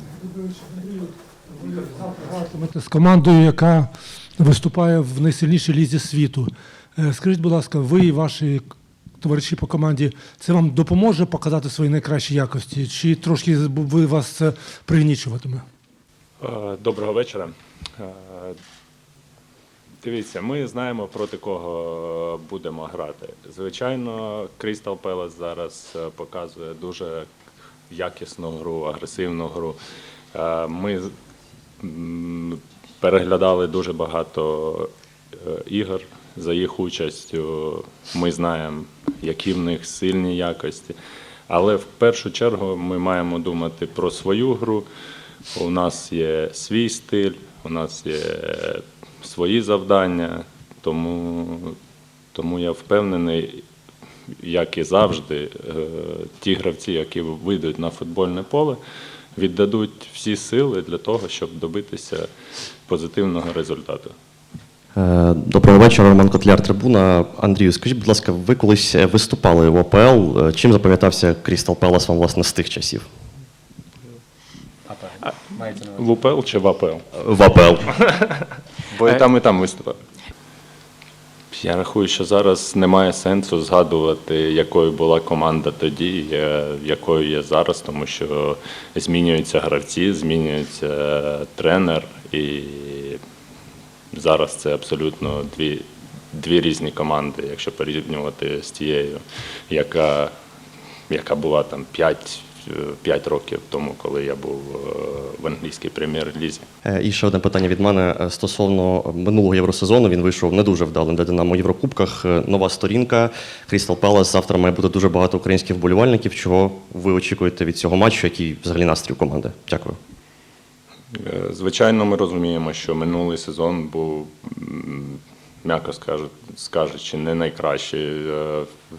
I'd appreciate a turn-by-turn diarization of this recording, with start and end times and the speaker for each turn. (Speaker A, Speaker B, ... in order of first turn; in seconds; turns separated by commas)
Speaker A: 0.5-1.1, Speaker A: 1.6-8.6, Speaker A: 9.2-15.6, Speaker B: 16.4-18.5, Speaker B: 20.0-27.2, Speaker B: 27.9-29.8, Speaker B: 30.3-31.1, Speaker B: 31.8-34.9, Speaker B: 35.4-41.0, Speaker B: 41.5-44.9, Speaker B: 45.5-51.8, Speaker B: 52.3-53.6, Speaker B: 54.4-58.8, Speaker B: 59.4-62.3, Speaker B: 62.9-64.1, Speaker C: 65.0-73.0, Speaker B: 75.2-77.0, Speaker C: 77.2-77.8, Speaker B: 77.7-78.4, Speaker B: 78.9-80.0, Speaker B: 81.5-93.2, Speaker B: 94.1-100.3, Speaker B: 101.1-106.7, Speaker C: 106.8-120.0, Speaker B: 121.2-128.7